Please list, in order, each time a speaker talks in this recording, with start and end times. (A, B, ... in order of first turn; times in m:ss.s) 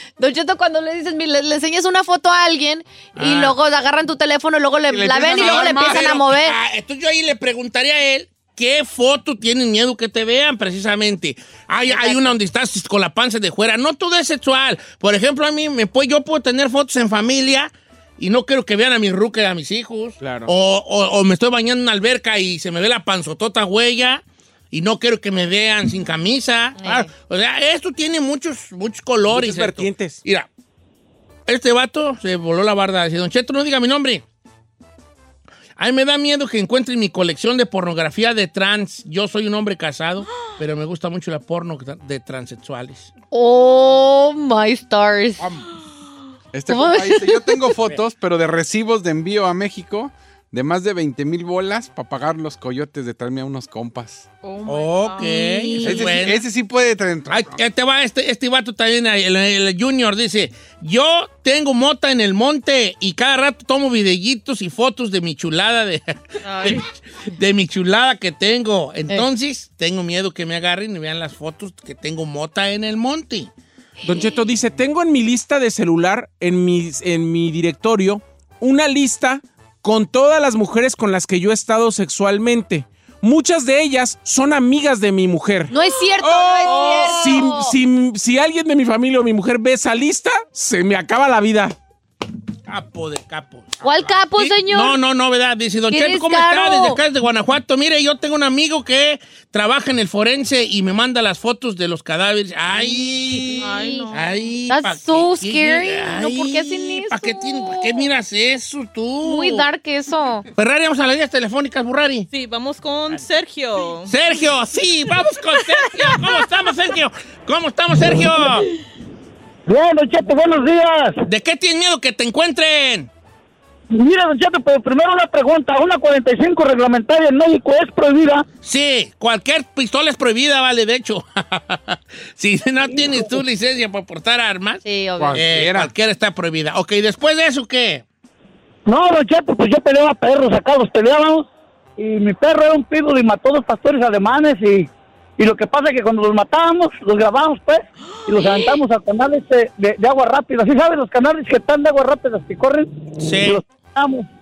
0:00.2-0:06.6 A
0:03.2-0:03.6 B
0:04.9-0:06.1 C
0:05.3-0:30.5 B
0:11.9-0:12.4 A
0:20.2-0:20.5 D
0:26.8-0:27.1 A
0:29.3-0:30.2 D
0:31.5-0:34.2 B
0:35.8-0:43.1 B
0:43.3-0:45.4 A
0:45.4-0:45.7 B
0:46.5-0:54.3 C
0:46.7-0:47.7 A
0:54.4-0:56.0 E
0:54.7-0:56.4 B
0:55.2-0:56.0 A
0:55.8-0:57.6 C
0:57.3-1:13.5 B
1:06.4-1:06.8 E
1:14.0-1:25.7 D
1:25.7-1:27.8 A
1:26.6-1:27.4 B
1:26.7-1:31.8 D
1:32.7-1:49.7 B
1:33.8-1:35.0 A
1:35.9-1:37.0 A
1:43.5-1:44.1 A
1:43.6-1:44.5 E
1:44.7-1:48.1 A
1:49.2-1:50.5 A
1:50.6-1:52.3 B
1:52.3-1:54.2 E
1:54.0-1:58.7 B
1:55.6-1:56.6 E
1:59.7-2:01.2 F
2:01.2-2:03.1 B
2:03.9-2:08.4 F
2:08.6-2:18.0 B
2:13.0-2:13.3 F
2:14.8-2:15.4 A
2:15.2-2:15.9 C
2:18.9-2:34.3 F
2:28.4-2:28.7 E
2:33.2-2:33.6 B